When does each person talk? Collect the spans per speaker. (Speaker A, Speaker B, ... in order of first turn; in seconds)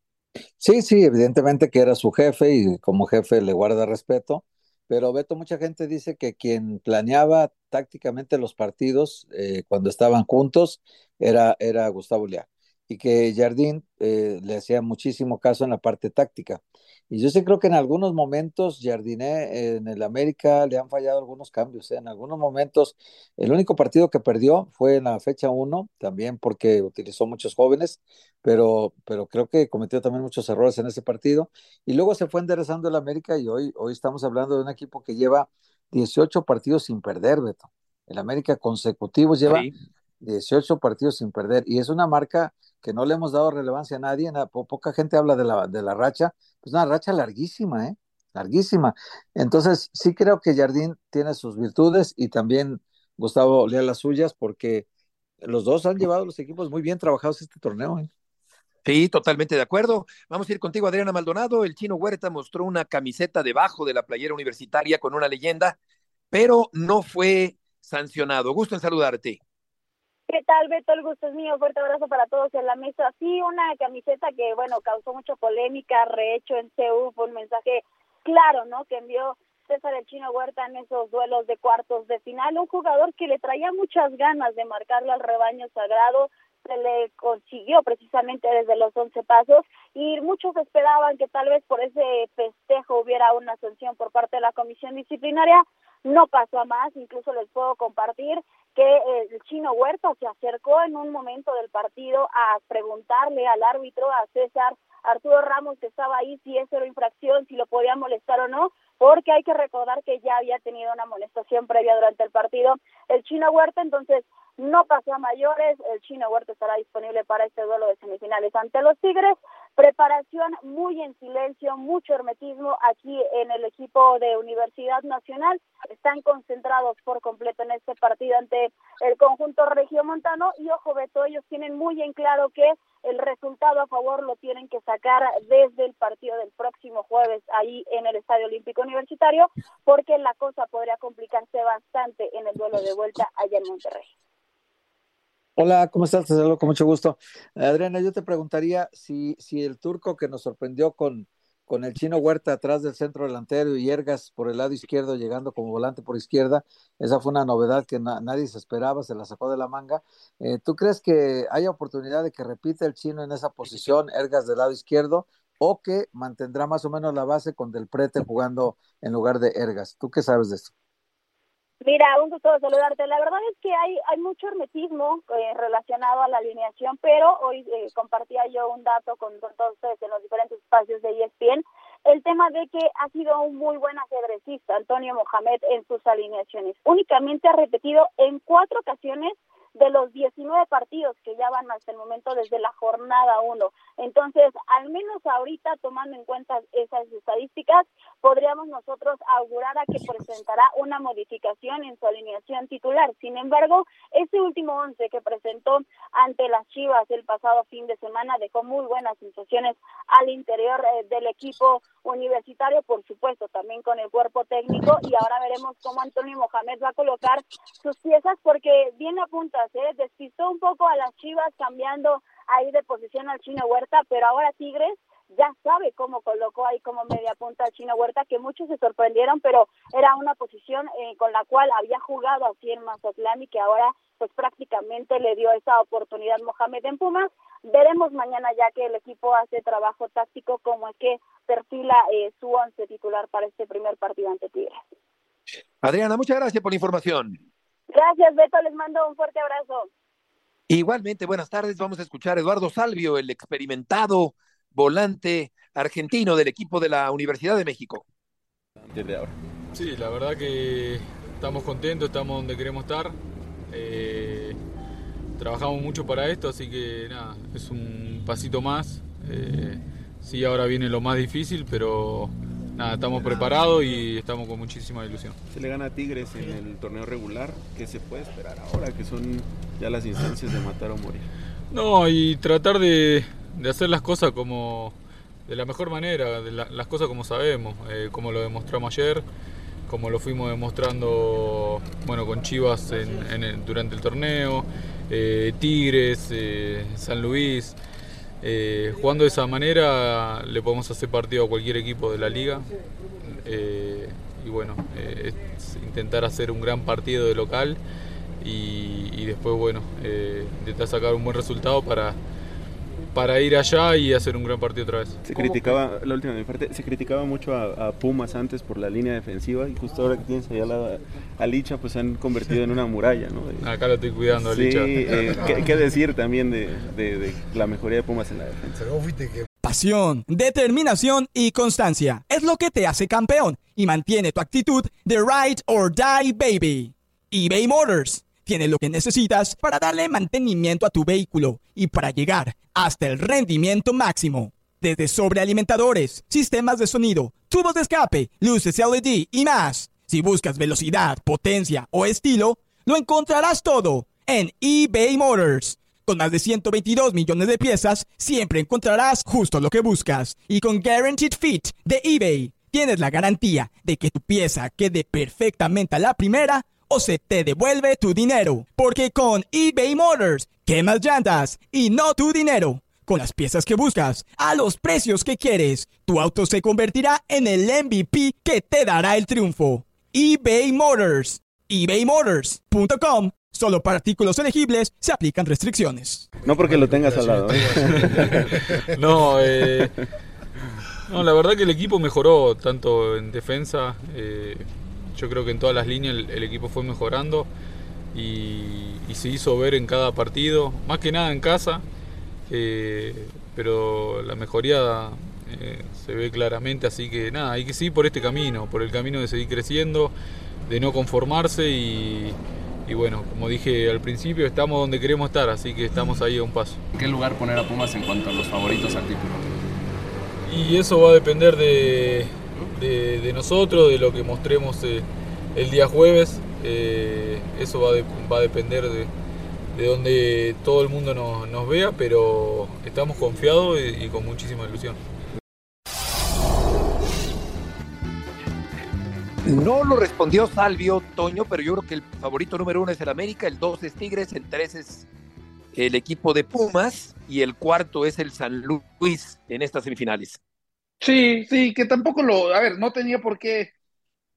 Speaker A: 0.6-39.7, 40.2-54.9, 55.4-58.1, 145.6-170.7
Speaker B: 58.8-65.8, 66.3-69.4, 245.8-247.4, 250.7-258.0, 439.4-445.1, 445.7-450.4
Speaker C: 70.3-144.1, 171.8-244.8, 247.9-249.9
Speaker D: 258.8-259.4, 273.3-273.6, 275.5-281.3, 315.2-323.7, 324.3-328.9, 386.4-388.4
Speaker E: 259.7-263.1, 263.7-264.6, 265.4-275.4, 281.7-284.9, 285.5-289.2, 289.9-297.8, 298.4-302.7, 303.2-307.8, 308.4-312.2, 313.1-315.8, 323.6-325.8, 386.5-389.9, 391.1-397.5, 398.1-401.8, 402.5-410.1, 410.6-416.8, 420.5-429.1, 429.7-435.0
Speaker F: 329.6-386.3
Speaker G: 416.9-419.4
Speaker H: 451.0-453.7